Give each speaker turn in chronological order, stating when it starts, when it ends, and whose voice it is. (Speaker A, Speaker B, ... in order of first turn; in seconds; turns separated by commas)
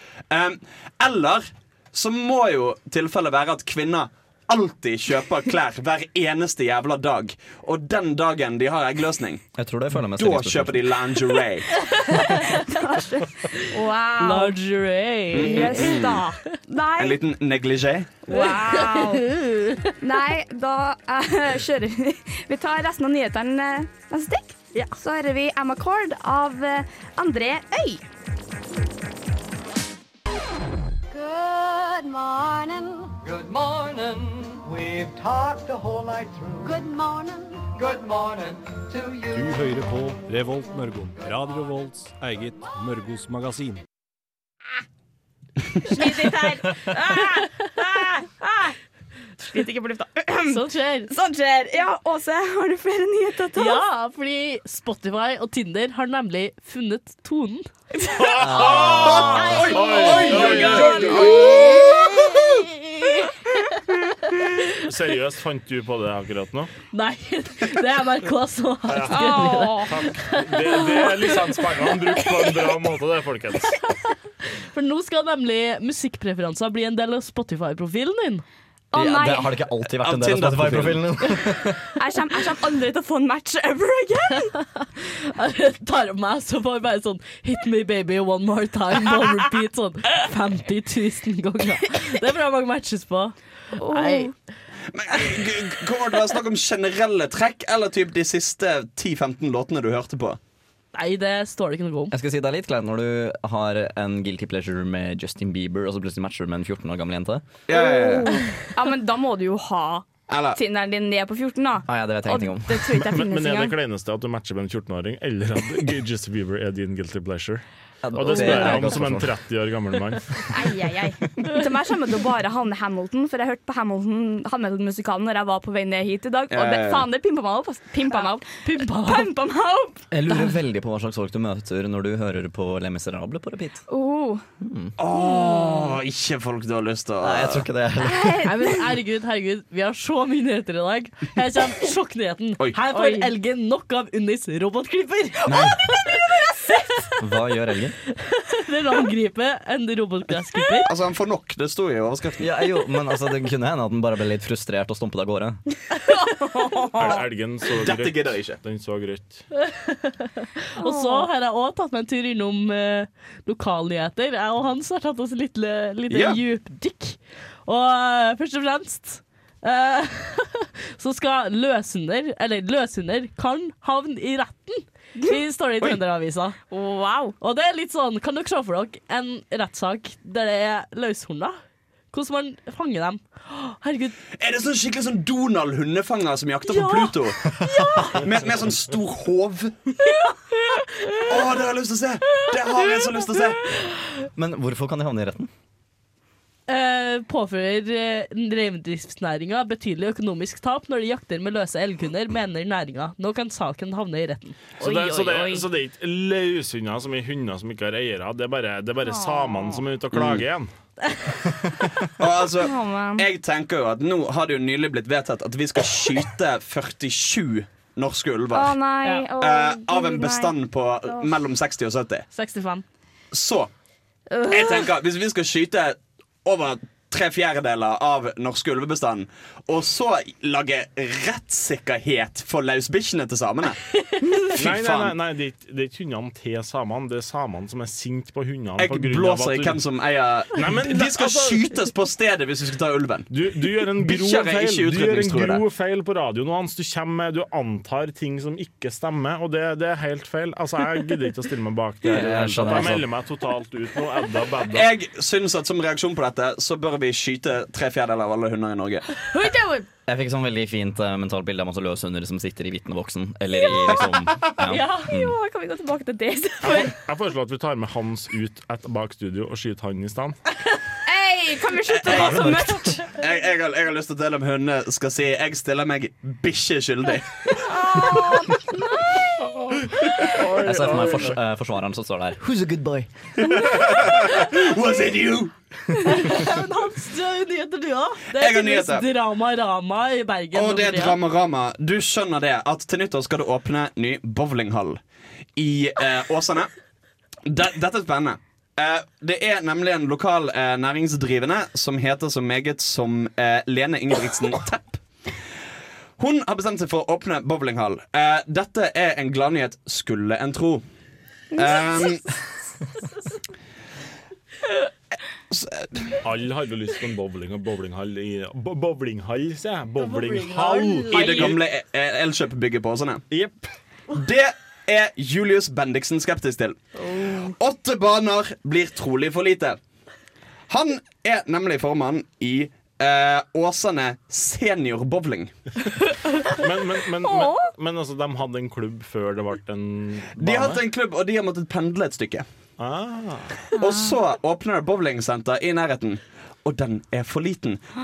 Speaker A: 0.3-9.5, Speaker B: 9.6-10.9, Speaker A: 10.1-11.8, Speaker C: 11.9-12.6, Speaker D: 12.3-14.6, Speaker C: 14.2-16.2, Speaker A: 15.3-16.2, Speaker D: 15.3-17.2, Speaker A: 17.0-18.2, Speaker D: 18.3-19.2, Speaker C: 18.3-19.9, Speaker D: 20.0-28.0, Speaker E: 31.1-33.2, Speaker F: 33.2-36.7, Speaker E: 36.6-38.0, Speaker F: 37.8-39.5, Speaker G: 39.3-43.8, Speaker D: 45.9-48.8, Speaker D: 49.4-53.8, Speaker C: 50.5-51.1, Speaker C: 53.5-57.6, Speaker D: 58.0-62.0, Speaker H: 58.2-61.2, Speaker B: 58.4-59.2, Speaker A: 58.8-62.4, Speaker C: 60.6-63.3, Speaker H: 64.8-66.7, Speaker C: 66.9-71.4, Speaker H: 68.9-73.8, Speaker D: 69.1-70.0, Speaker C: 74.7-78.4, Speaker D: 78.9-79.5, Speaker B: 78.9-81.8, Speaker A: 80.0-81.1, Speaker D: 82.0-84.5, Speaker C: 84.5-94.3, Speaker D: 93.8-94.3, Speaker A: 94.9-100.4, Speaker C: 100.9-102.1, Speaker B: 102.1-107.5, Speaker A: 107.7-108.5, Speaker D: 107.7-113.8, Speaker A: 110.3-110.6, Speaker B: 111.9-112.9, Speaker H: 112.9-120.5, Speaker B: 118.0-119.4, Speaker D: 118.3-118.7, Speaker D: 120.5-130.0, Speaker A: 126.5-127.1, Speaker C: 128.6-129.3, Speaker B: 130.1-133.8, Speaker D: 133.9-134.4, Speaker B: 134.6-134.9, Speaker A: 135.0-137.6, Speaker D: 135.1-135.9, Speaker B: 137.2-138.4, Speaker D: 138.0-138.9, Speaker C: 138.4-147.1, Speaker D: 142.9-143.3, Speaker B: 145.5-145.8, Speaker B: 147.2-148.0, Speaker C: 148.1-150.9, Speaker A: 150.8-152.5, Speaker B: 152.4-155.6, Speaker D: 156.1-157.2, Speaker H: 157.0-159.4, Speaker A: 157.8-158.6, Speaker C: 159.6-176.6, Speaker D: 160.8-161.3, Speaker A: 166.1-166.4, Speaker D: 176.7-177.4, Speaker C: 177.4-181.6, Speaker C: 182.1-184.2, Speaker A: 184.3-187.4, Speaker C: 186.7-188.2, Speaker A: 188.2-189.8, Speaker A: 191.3-193.7, Speaker B: 194.3-195.5, Speaker C: 196.7-204.6, Speaker D: 204.8-205.7, Speaker H: 204.8-210.7, Speaker D: 209.0-209.8, Speaker A: 210.1-210.4, Speaker A: 212.2-218.8, Speaker D: 212.6-213.2, Speaker D: 218.5-221.3, Speaker A: 219.4-222.2, Speaker C: 222.3-222.8, Speaker A: 223.3-223.7, Speaker D: 224.3-224.9, Speaker A: 224.5-233.8, Speaker A: 234.5-235.2, Speaker H: 234.6-239.8, Speaker A: 238.8-243.3, Speaker H: 240.5-241.7, Speaker H: 243.3-254.9, Speaker A: 243.9-245.6, Speaker B: 252.0-253.1, Speaker A: 254.7-259.2, Speaker D: 259.3-259.9, Speaker B: 260.1-265.4, Speaker D: 264.7-266.9, Speaker C: 264.7-265.1, Speaker H: 266.6-270.4, Speaker D: 271.0-273.0, Speaker A: 271.9-272.5, Speaker B: 272.1-273.0, Speaker A: 273.1-278.2, Speaker D: 277.6-279.2, Speaker H: 279.4-281.4, Speaker B: 280.6-283.1, Speaker A: 283.4-285.5, Speaker C: 286.1-291.2, Speaker A: 288.4-289.0, Speaker A: 290.5-295.0, Speaker A: 295.6-296.7, Speaker A: 297.5-305.0, Speaker A: 306.2-310.8, Speaker A: 311.5-312.3, Speaker A: 315.5-316.2, Speaker H: 316.2-321.6, Speaker C: 320.0-321.6, Speaker A: 321.1-323.2, Speaker H: 323.3-323.6, Speaker A: 324.1-329.8, Speaker A: 330.7-335.5, Speaker H: 336.4-340.8, Speaker D: 337.2-337.7, Speaker A: 340.4-342.4, Speaker H: 342.8-343.6, Speaker D: 343.8-344.1, Speaker A: 343.8-347.8